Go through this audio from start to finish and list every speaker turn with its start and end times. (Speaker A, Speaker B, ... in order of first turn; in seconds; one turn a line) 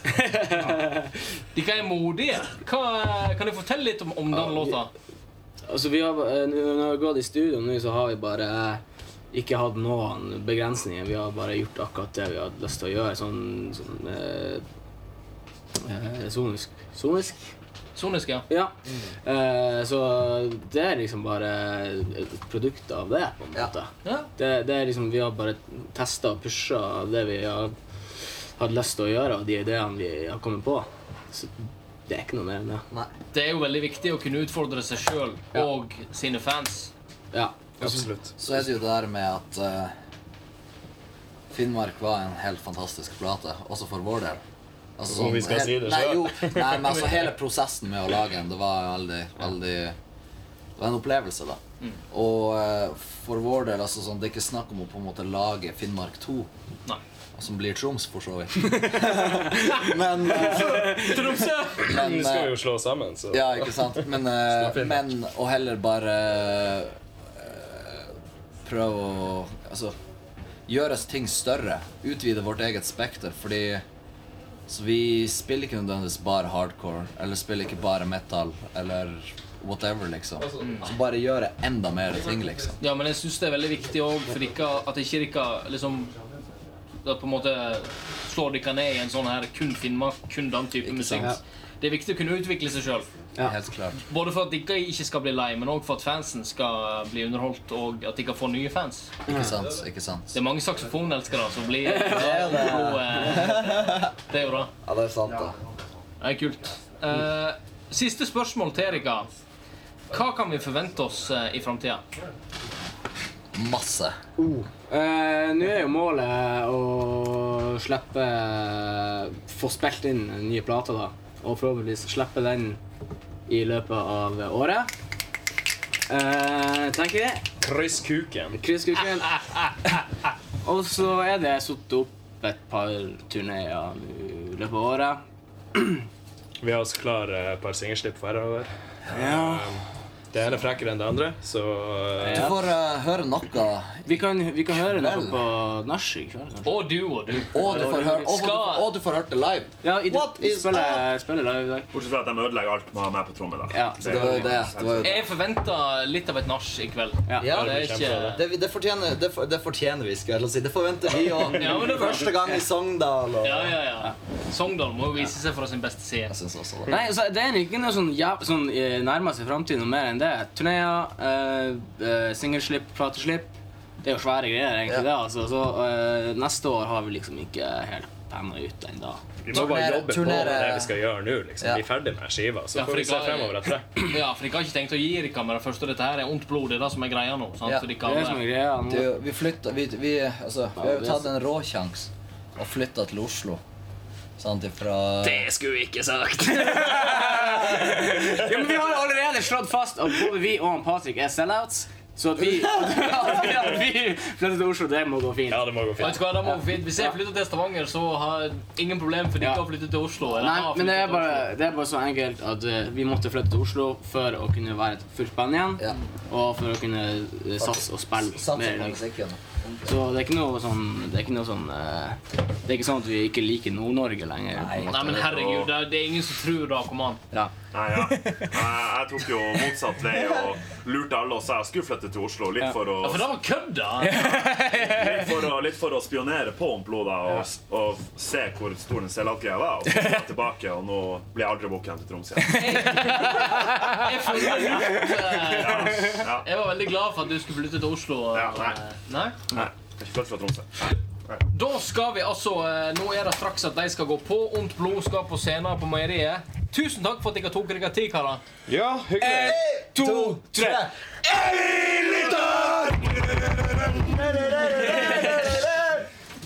Speaker A: 0.1-1.1
Speaker B: 1.5-4.9
Speaker A: 4.4-4.7
Speaker A: 5.7-14.6
Speaker A: 15.8-17.5
Speaker B: 17.9-18.5
Speaker A: 18.5-27.7
Speaker C: 18.8-19.1
Speaker B: 24.0-24.3
Speaker A: 28.6-32.9
Speaker B: 33.3-36.9
Speaker A: 37.3-38.1
Speaker D: 37.8-38.3
Speaker C: 38.4-39.9
Speaker C: 41.5-44.4
Speaker C: 45.0-50.0
Speaker D: 45.1-47.2
Speaker C: 50.8-51.6
Speaker C: 52.1-56.5
Speaker C: 57.4-62.5
Speaker B: 60.4-61.9
Speaker D: 61.8-65.1
Speaker C: 63.3-68.1
Speaker C: 68.6-69.9
Speaker C: 70.7-73.8
Speaker C: 74.7-82.8
Speaker B: 80.6-81.0
Speaker B: 82.8-86.1
Speaker B: 87.0-93.1
Speaker C: 90.8-91.4
Speaker C: 93.4-94.0
Speaker B: 94.0-99.2
Speaker A: 99.3-99.6
Speaker C: 99.3-100.3
Speaker B: 100.3-104.7
Speaker A: 101.8-103.0
Speaker C: 102.0-104.1
Speaker C: 104.8-105.6
Speaker B: 106.2-109.3
Speaker B: 110.1-112.0
Speaker C: 113.5-114.2
Speaker A: 114.4-122.8
Speaker A: 123.5-124.9
Speaker A: 126.1-127.5
Speaker D: 127.6-128.6
Speaker A: 128.5-129.9
Speaker A: 130.6-135.2
Speaker A: 135.7-136.1
Speaker D: 136.6-142.6
Speaker A: 139.1-139.7
Speaker A: 142.2-142.5
Speaker C: 142.2-145.4
Speaker A: 144.1-146.9
Speaker B: 146.6-148.9
Speaker C: 147.5-151.1
Speaker A: 147.5-148.4
Speaker A: 149.8-151.9
Speaker E: 151.9-155.1
Speaker A: 153.7-154.6
Speaker C: 154.1-155.3
Speaker B: 155.0-158.4
Speaker A: 157.3-157.6
Speaker C: 157.4-163.8
Speaker D: 157.4-158.4
Speaker B: 161.5-162.3
Speaker B: 163.4-166.3
Speaker C: 166.3-167.0
Speaker A: 166.9-179.2
Speaker D: 179.4-183.9
Speaker C: 179.5-180.9
Speaker B: 182.7-188.4
Speaker A: 188.0-189.1
Speaker C: 188.8-193.6
Speaker A: 190.8-191.2
Speaker C: 194.4-195.5
Speaker D: 195.2-199.0
Speaker A: 196.4-207.1
Speaker C: 197.4-198.1
Speaker C: 202.4-203.7
Speaker D: 205.5-206.2
Speaker B: 206.0-211.5
Speaker A: 210.3-219.0
Speaker C: 217.6-220.0
Speaker A: 219.8-224.9
Speaker C: 224.5-225.4
Speaker B: 224.9-227.2
Speaker E: 225.3-225.7
Speaker A: 227.3-228.6
Speaker E: 227.7-233.3
Speaker B: 233.0-234.6
Speaker A: 234.0-235.4
Speaker E: 234.7-243.0
Speaker A: 242.5-246.1
Speaker B: 242.5-249.4
Speaker E: 245.4-246.5
Speaker E: 248.3-248.8
Speaker E: 249.5-251.4
Speaker B: 251.5-258.4
Speaker D: 258.7-259.6
Speaker C: 259.2-266.1
Speaker A: 259.2-260.8
Speaker A: 264.8-265.4